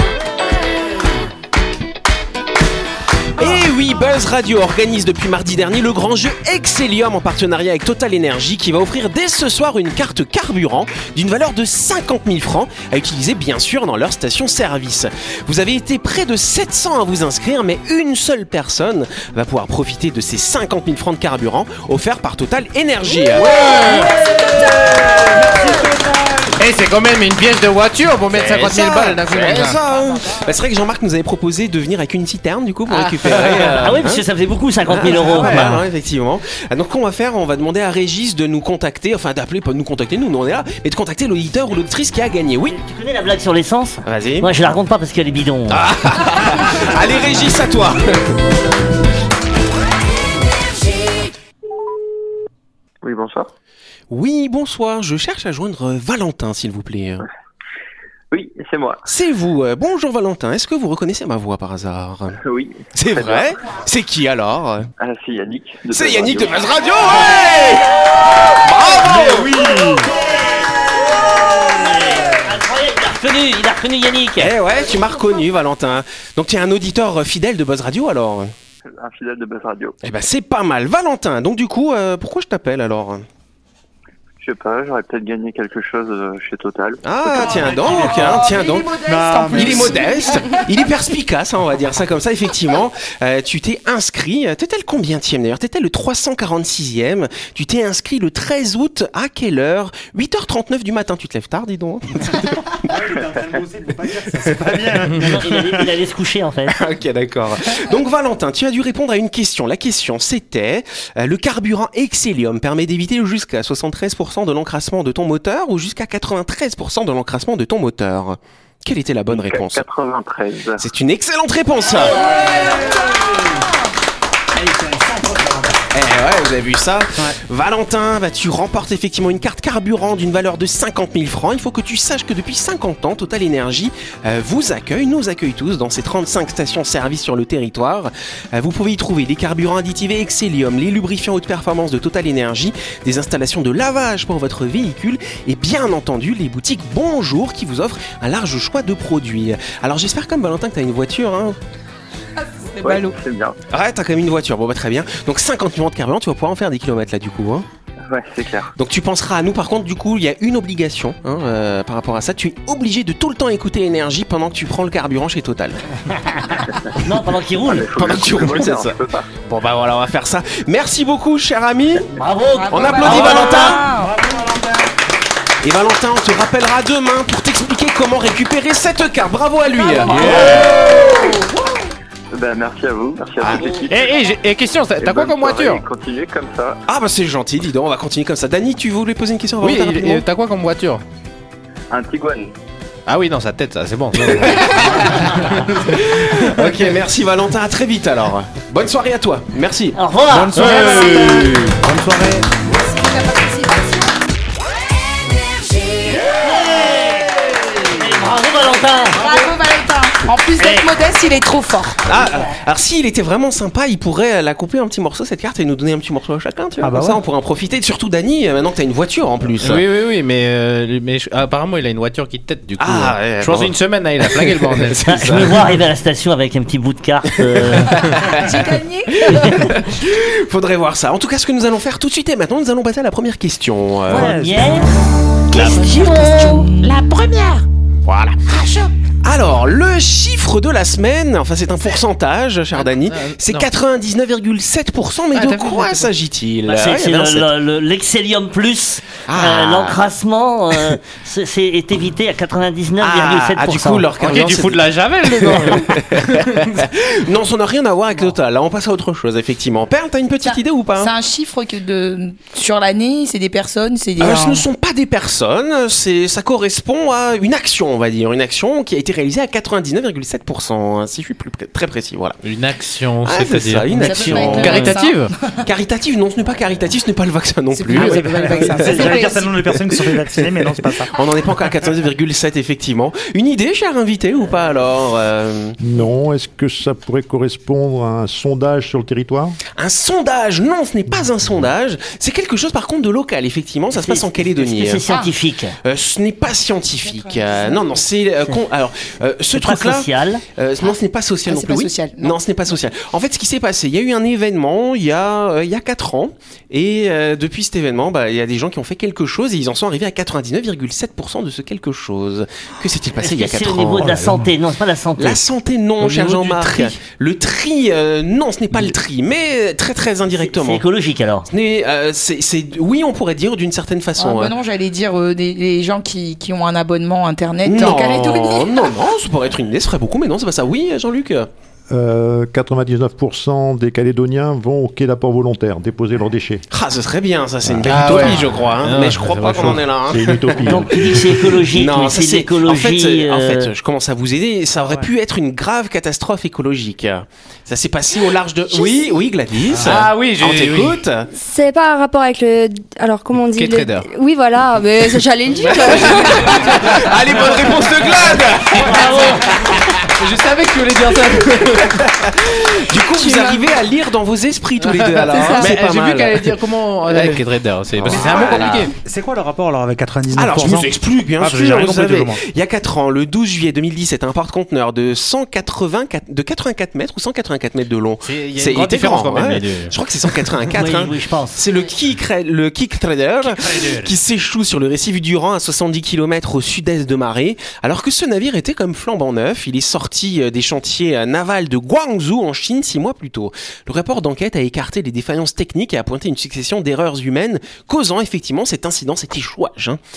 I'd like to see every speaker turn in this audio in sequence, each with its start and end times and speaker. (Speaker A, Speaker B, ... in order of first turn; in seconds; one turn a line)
Speaker A: 3.4-23.6
Speaker B: 23.4-24.2
Speaker B: 24.9-25.4
Speaker C: 25.4-26.5
Speaker B: 26.6-29.8
Speaker A: 28.3-34.2
Speaker D: 30.1-30.4
Speaker B: 32.9-33.8
Speaker E: 33.8-35.8
Speaker A: 34.9-42.8
Speaker C: 35.2-35.8
Speaker E: 42.7-45.8
Speaker A: 44.0-44.5
Speaker A: 45.7-48.2
Speaker F: 53.0-53.5
Speaker A: 54.1-57.2
Speaker F: 58.3-59.0
Speaker A: 59.1-62.4
Speaker F: 62.4-63.5
Speaker A: 62.9-64.9
Speaker F: 65.0-66.7
Speaker A: 65.9-67.9
Speaker A: 68.5-69.9
Speaker C: 69.0-70.1
Speaker E: 70.2-70.5
Speaker E: 71.2-74.5
Speaker A: 74.4-78.5
Speaker F: 78.8-80.0
Speaker A: 80.0-83.2
Speaker F: 84.4-87.0
Speaker A: 87.0-88.9
Speaker D: 87.2-90.8
Speaker C: 87.9-90.1
Speaker A: 89.5-102.4
Speaker C: 102.9-105.9
Speaker E: 105.2-106.8
Speaker A: 106.7-119.8
Speaker F: 119.3-120.8
Speaker A: 120.8-122.3
Speaker C: 124.7-125.7
Speaker A: 125.9-151.6
Speaker D: 152.4-153.2
Speaker F: 152.8-153.6
Speaker A: 153.7-157.7
Speaker F: 158.1-158.7
Speaker A: 158.8-165.8
Speaker E: 166.1-167.9
Speaker F: 167.7-169.3
Speaker A: 167.9-172.1
Speaker E: 172.1-173.8
Speaker D: 172.5-174.2
Speaker A: 172.7-173.8
Speaker C: 173.9-174.8
Speaker A: 175.6-181.0
Speaker D: 179.7-181.3
Speaker B: 180.1-180.7
Speaker E: 180.2-180.6
Speaker F: 182.3-184.3
Speaker A: 183.4-183.7
Speaker B: 183.9-185.8
Speaker F: 185.0-186.8
Speaker A: 186.9-190.2
Speaker B: 189.6-191.0
Speaker F: 191.9-192.5
Speaker B: 193.1-195.7
Speaker A: 194.4-200.0
Speaker E: 200.0-201.5
Speaker C: 200.3-202.5
Speaker B: 200.6-201.7
Speaker D: 202.6-204.2
Speaker E: 206.4-209.3
Speaker D: 209.1-212.1
Speaker B: 210.6-210.9
Speaker A: 212.1-219.8
Speaker C: 216.8-217.2
Speaker B: 219.6-225.5
Speaker A: 222.8-225.5
Speaker E: 225.1-228.0
Speaker A: 227.5-234.4
Speaker D: 228.0-229.6
Speaker C: 234.1-234.7
Speaker E: 234.1-234.9
Speaker A: 235.5-247.5
Speaker D: 235.5-237.1
Speaker E: 235.8-236.6
Speaker B: 242.7-243.7
Speaker B: 245.3-246.1
Speaker E: 246.7-254.1
Speaker A: 249.3-250.0
Speaker A: 253.0-261.1
Speaker B: 254.2-256.8
Speaker D: 260.4-264.7
Speaker A: 264.2-272.4
Speaker B: 272.4-275.3
Speaker A: 273.2-275.0
Speaker D: 273.9-275.6
Speaker A: 275.6-278.3
Speaker D: 277.7-279.5
Speaker C: 277.9-281.1
Speaker A: 278.9-279.1
Speaker G: 279.1-279.5
Speaker A: 281.0-285.8
Speaker H: 285.8-289.6
Speaker A: 289.8-295.0
Speaker H: 291.1-291.6
Speaker E: 293.9-295.8
Speaker D: 295.1-295.3
Speaker A: 295.8-314.3
Speaker D: 297.0-298.0
Speaker E: 299.5-300.4
Speaker D: 301.5-302.4
Speaker E: 313.2-315.4
Speaker A: 315.2-320.8
Speaker E: 316.1-316.5
Speaker E: 320.4-321.5
Speaker A: 321.5-324.5
Speaker D: 324.2-328.9
Speaker A: 327.6-331.5
Speaker H: 331.9-336.6
Speaker A: 336.7-340.9
Speaker H: 337.6-338.1
Speaker B: 337.8-339.9
Speaker H: 340.1-340.9
Speaker E: 340.7-343.7
Speaker A: 341.6-351.3
Speaker B: 349.7-351.0
Speaker G: 351.3-356.7
Speaker B: 353.4-354.1
Speaker B: 355.6-359.0
Speaker A: 355.6-360.1
Speaker E: 358.9-359.5
Speaker B: 359.7-362.1
Speaker A: 361.8-366.5
Speaker G: 363.3-363.6
Speaker B: 364.8-368.9
Speaker G: 365.3-365.7
Speaker A: 368.0-368.9
Speaker C: 368.1-372.4
Speaker A: 370.3-400.0
Speaker B: 378.2-380.5
Speaker E: 380.8-381.6
Speaker B: 383.6-384.1